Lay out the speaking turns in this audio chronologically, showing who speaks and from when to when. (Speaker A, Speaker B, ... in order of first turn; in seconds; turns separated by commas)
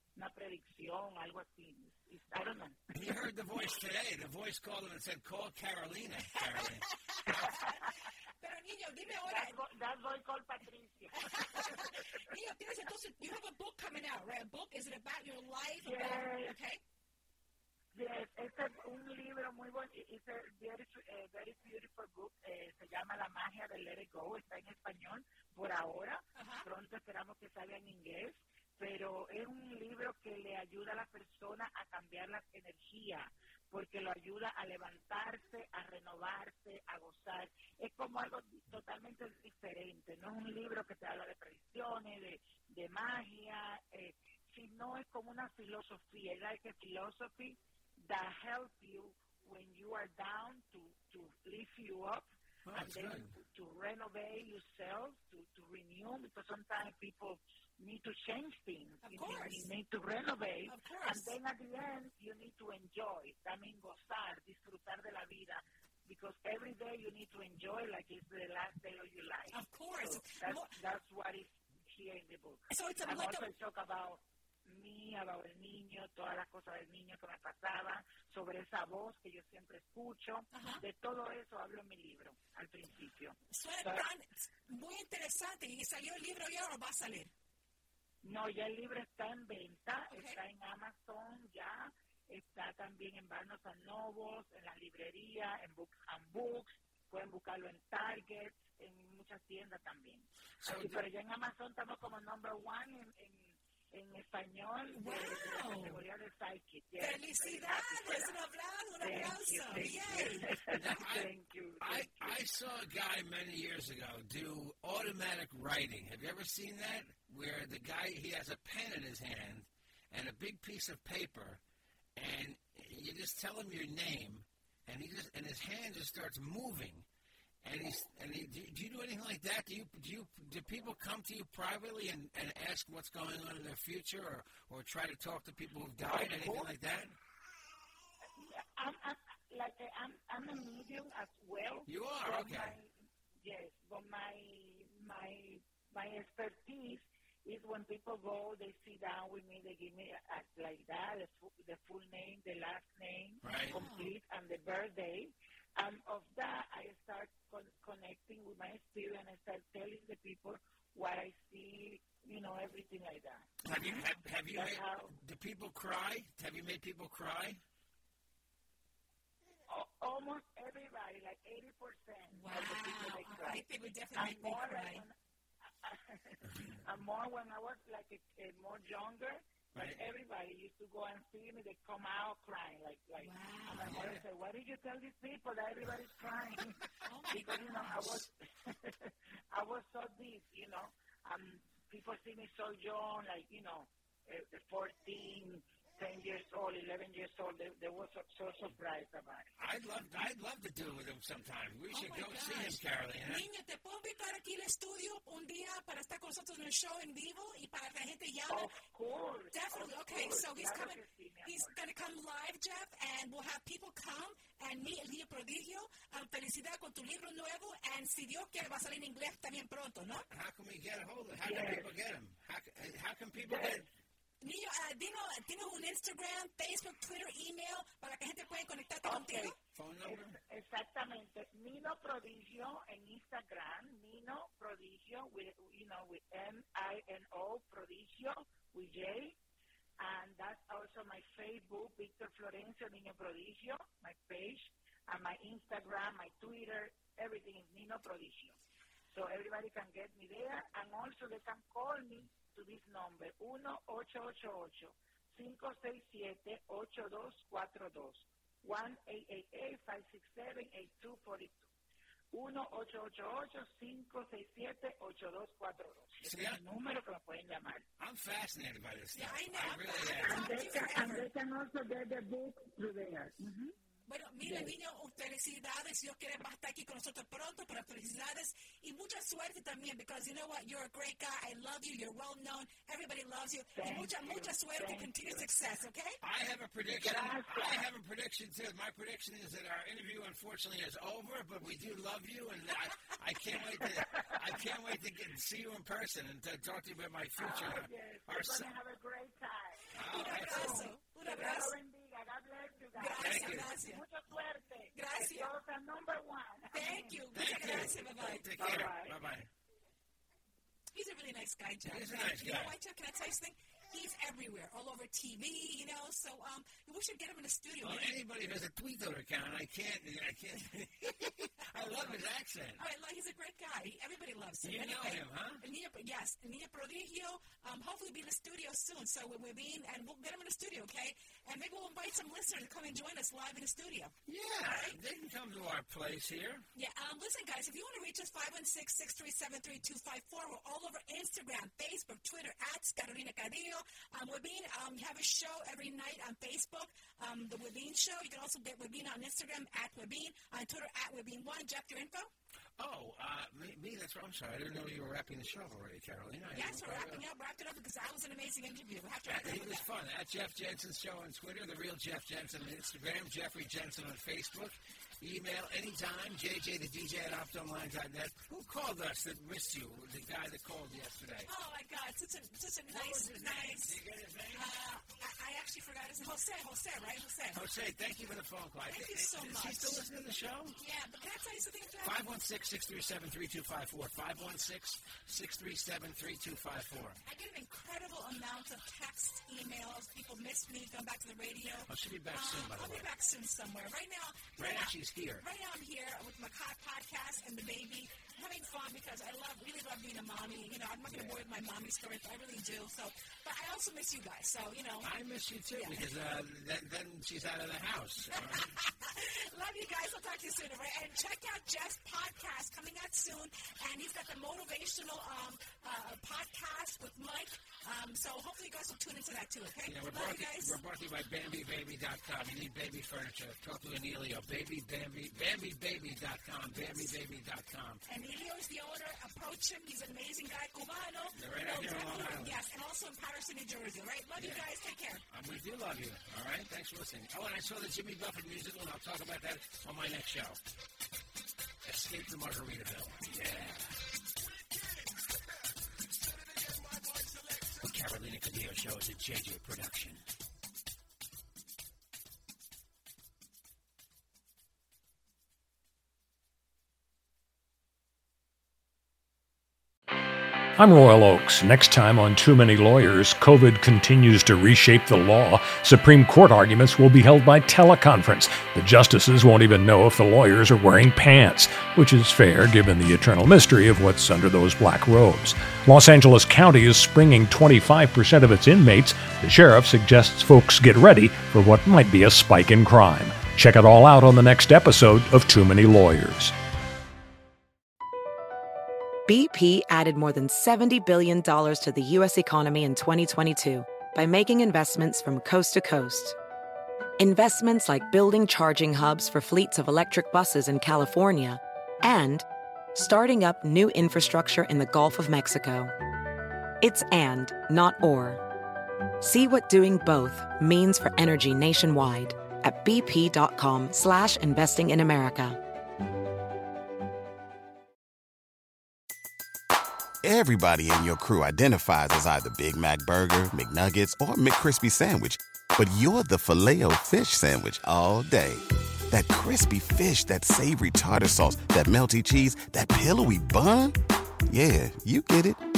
Speaker A: 0.1-2.9, Speaker B: 2.9-6.9, Speaker C: 7.1-9.5, Speaker A: 7.3-8.0, Speaker A: 9.2-12.2, Speaker C: 11.1-16.8, Speaker A: 15.8-16.6, Speaker A: 17.9-84.1, Speaker C: 26.3-26.7, Speaker B: 52.6-53.3, Speaker C: 59.0-59.7, Speaker C: 60.7-61.3, Speaker C: 69.5-70.7, Speaker C: 72.7-73.5, Speaker C: 80.5-80.8, Speaker C: 83.5-87.3, Speaker A: 88.2-108.3, Speaker C: 90.1-90.4, Speaker B: 100.6-101.0, Speaker C: 104.9-106.0, Speaker C: 107.0-110.5, Speaker A: 109.0-112.4, Speaker B: 110.7-111.3, Speaker B: 111.8-121.6, Speaker B: 122.2-127.0, Speaker B: 127.6-137.2, Speaker A: 136.0-136.7, Speaker A: 138.4-163.5, Speaker B: 141.9-142.8, Speaker B: 153.4-153.8, Speaker C: 153.7-154.1, Speaker B: 163.6-167.6, Speaker A: 164.5-165.1, Speaker A: 169.7-173.6, Speaker C: 172.3-175.0, Speaker A: 174.1-175.1, Speaker A: 175.8-199.5, Speaker B: 179.7-180.1, Speaker C: 183.2-184.1, Speaker B: 183.8-184.2, Speaker C: 187.0-188.2, Speaker B: 199.6-203.4, Speaker C: 201.9-208.7, Speaker A: 208.5-211.7, Speaker C: 209.5-220.3, Speaker B: 220.3-223.8, Speaker A: 221.4-221.9, Speaker A: 223.5-223.9, Speaker C: 224.4-229.5, Speaker A: 229.0-239.4, Speaker B: 229.7-230.4, Speaker A: 240.0-248.6, Speaker A: 249.1-261.7, Speaker A: 262.3-267.9, Speaker B: 266.2-266.6, Speaker B: 268.0-270.4, Speaker C: 269.1-271.3, Speaker A: 270.2-273.8, Speaker C: 274.0-286.2, Speaker A: 274.4-274.7, Speaker A: 283.7-285.5, Speaker B: 286.2-298.7, Speaker A: 286.9-287.8, Speaker A: 293.9-294.3, Speaker A: 297.4-307.8, Speaker B: 299.9-300.9, Speaker C: 300.1-301.8, Speaker C: 302.9-304.0, Speaker B: 303.2-303.7, Speaker C: 304.9-305.5, Speaker C: 306.7-308.4, Speaker B: 307.3-309.5, Speaker A: 308.6-309.2, Speaker C: 310.9-318.1, Speaker B: 311.9-312.7, Speaker B: 317.8-322.8, Speaker C: 322.8-335.0, Speaker B: 324.6-325.6, Speaker B: 334.2-336.7, Speaker C: 336.7-352.3, Speaker B: 352.8-357.2, Speaker C: 356.5-359.9, Speaker B: 359.2-371.5, Speaker C: 371.5-374.0, Speaker B: 372.9-374.7, Speaker C: 374.5-377.6, Speaker B: 377.5-380.8, Speaker C: 378.9-380.0, Speaker C: 380.8-382.2, Speaker B: 382.0-387.2, Speaker C: 387.2-405.1, Speaker B: 391.9-393.1, Speaker B: 394.6-395.4, Speaker B: 401.1-401.4, Speaker B: 405.0-408.7, Speaker C: 405.7-406.0, Speaker C: 408.3-420.8, Speaker B: 419.8-428.0, Speaker C: 428.1-435.2, Speaker B: 431.3-432.6, Speaker B: 434.4-434.7, Speaker B: 435.3-440.6, Speaker B: 441.8-444.1, Speaker B: 446.2-450.2, Speaker D: 460.8-486.6, Speaker E: 489.3-496.4, Speaker E: 497.2-505.9, Speaker E: 506.8-508.4, Speaker E: 509.2-515.6, Speaker F: 520.2-534.0, Speaker F: 534.5-535.6